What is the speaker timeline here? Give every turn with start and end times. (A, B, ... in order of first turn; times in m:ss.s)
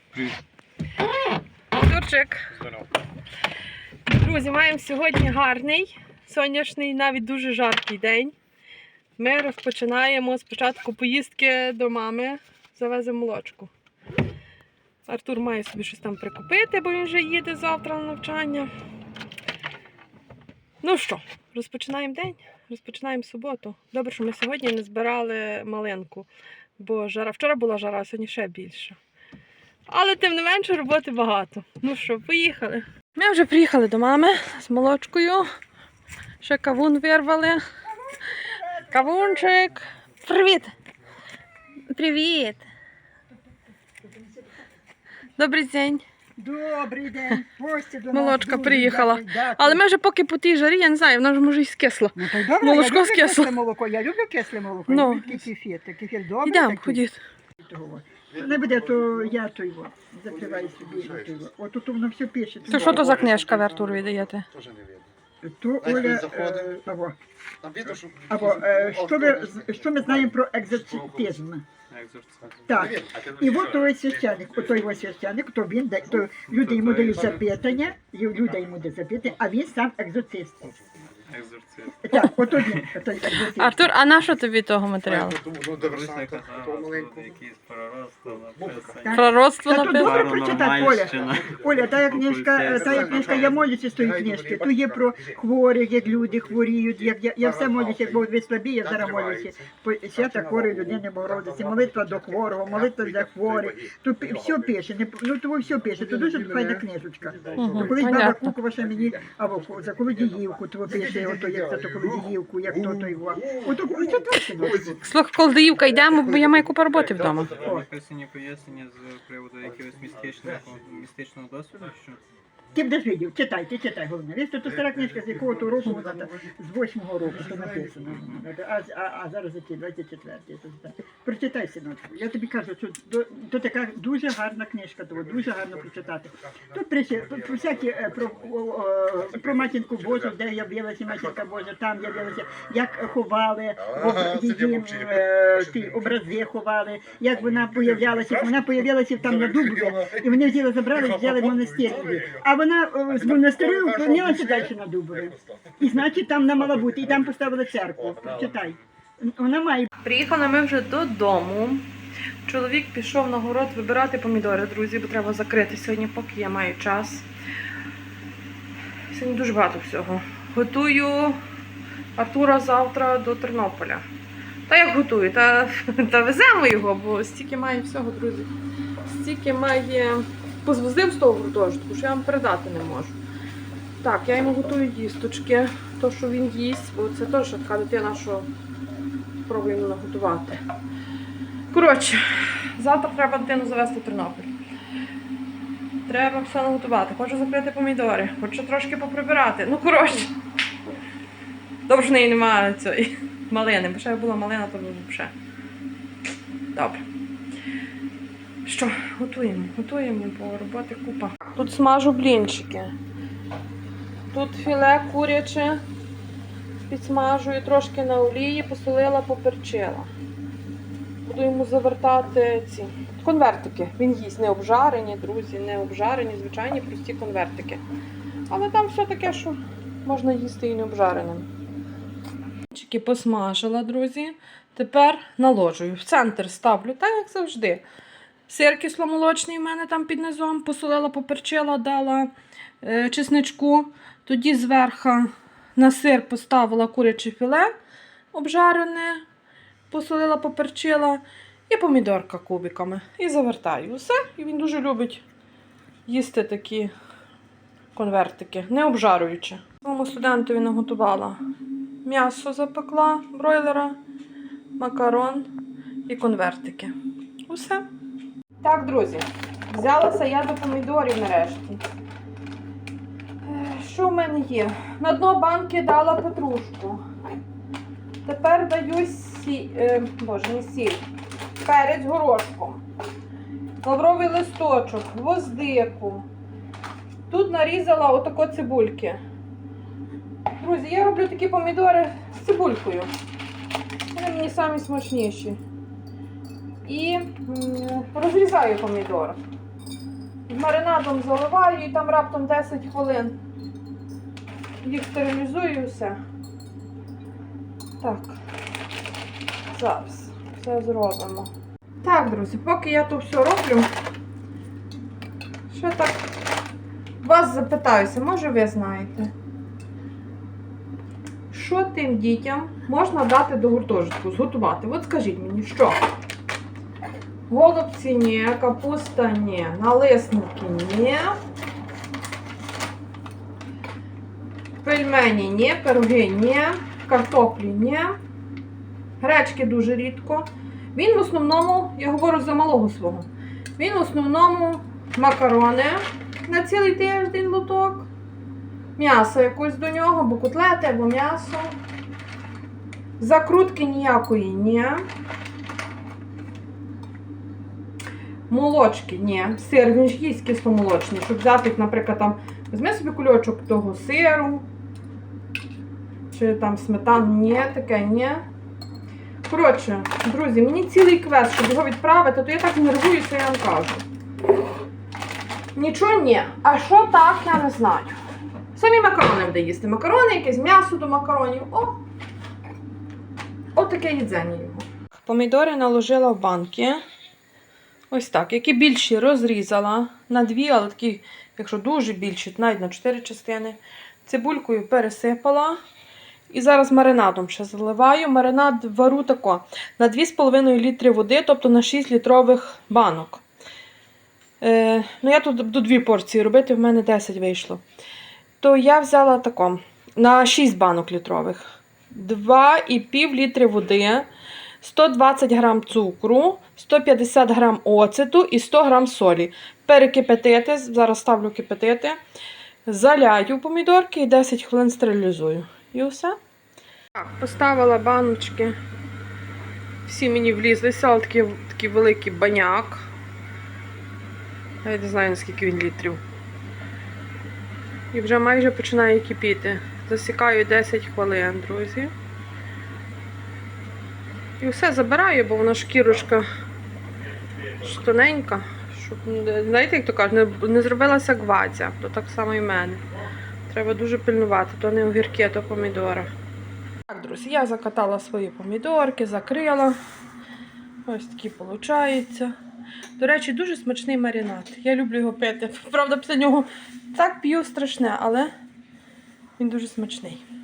0:01.7-0:02.4 A
0:04.1-0:08.4 A
0:09.2-0:13.7 A
0:15.0-0:18.7 A
0:20.8-0:29.0 A
0:29.9-0:35.5 A
0:36.4-0:37.6 A
0:38.3-0:39.4 B
0:38.9-0:40.7 A
0:41.9-0:42.6 A
0:45.4-0:46.0 A
0:46.4-0:49.8 B
0:48.1-0:53.5 A
0:52.1-0:57.0 B
0:54.9-0:55.5 A
0:56.4-0:57.2 A
0:57.6-1:03.3 B
0:58.3-0:59.4 C
1:00.3-1:01.5 C
1:02.6-1:05.1 C
1:02.7-1:04.4 A
1:05.4-1:07.2 B
1:05.8-1:06.8 C
1:07.6-1:11.4 C
1:08.3-1:11.6 B
1:11.9-1:12.9 D
1:12.7-1:20.7 B
1:12.7-1:15.1 C
1:16.5-1:17.4 D
1:17.0-1:17.9 C
1:20.6-1:21.1 C
1:21.3-1:23.0 D
1:22.0-1:23.8 B
1:23.6-1:25.4 A
1:25.1-1:27.3 C
1:25.7-1:33.5 D
1:28.3-1:29.0 C
1:29.0-1:55.0 B
1:29.1-1:30.3 A
1:30.4-1:35.4 C
1:36.0-1:38.3 C
1:38.8-1:44.9 C
1:45.6-1:55.0 C
1:47.6-1:48.5 A
1:55.0-1:57.5 A
1:55.7-1:57.9 C
1:57.2-2:02.2 D
1:59.7-2:00.9 C
2:02.7-2:39.9 B
2:04.7-2:06.5 C
2:07.3-2:08.4 C
2:15.2-2:23.1 C
2:23.8-2:26.3 C
2:27.2-2:32.5 C
2:33.1-2:38.7 C
2:40.0-2:41.9 A
2:42.4-2:47.3 A
2:49.1-2:51.4 A
2:52.2-2:54.0 A
2:54.7-2:58.5 A
2:59.0-3:03.2 A
3:04.0-3:08.5 A
3:09.4-3:10.6 A
3:11.7-3:14.5 A
3:16.1-3:20.3 A
3:21.9-3:25.3 A
3:26.7-3:27.0 A
3:28.6-3:32.9 A
3:34.3-3:35.8 A
3:36.9-3:40.1 A
3:41.2-3:47.8 A
3:48.5-3:51.5 A
3:52.7-3:57.8 A
3:58.5-4:02.3 A
4:02.8-4:07.7 A
4:08.3-4:09.2 A
4:09.9-4:15.2 A
4:16.1-4:16.9 A
4:17.9-4:21.4 A
4:22.0-4:24.0 A
4:24.8-4:25.5 A
4:26.1-4:26.9 A
4:27.5-4:27.8 A
4:28.6-4:31.8 A
4:33.4-4:37.0 A
4:38.2-4:41.0 A
4:41.6-4:42.8 A
4:43.8-4:46.2 A
4:47.3-4:49.2 A
4:50.6-4:53.1 A
4:54.1-4:55.6 A
4:56.8-4:59.4 A
5:00.5-5:03.4 A
5:04.8-5:06.2 A
5:08.0-5:08.4 A
5:09.7-5:11.5 A
5:12.0-5:13.9 A
5:15.7-5:16.2 A
5:17.2-5:19.3 A
5:21.5-5:26.1 A
5:27.5-5:31.4 A
5:34.8-5:38.2 A
5:39.2-5:48.1 A
5:49.0-5:51.8 A
5:53.2-5:55.0 A
5:58.5-6:04.7 A
6:06.3-6:08.4 A
6:09.5-6:14.0 A
6:15.8-6:18.2 A
6:18.8-6:22.0 A
6:23.8-6:27.0 A
6:28.1-6:35.8 A
6:36.5-6:43.4 A
6:44.6-6:47.8 A
6:48.6-6:54.3 A
6:54.8-7:02.2 A
7:02.9-7:06.4 A
7:07.2-7:08.8 A
7:10.0-7:13.1 A
7:14.8-7:16.2 A
7:18.1-7:22.1 A
7:24.6-7:26.5 A
7:27.8-7:33.0 A
7:33.7-7:36.3 A
7:37.1-7:40.0 A
7:41.1-7:42.5 A
7:43.2-7:48.5 A
7:49.6-7:50.4 A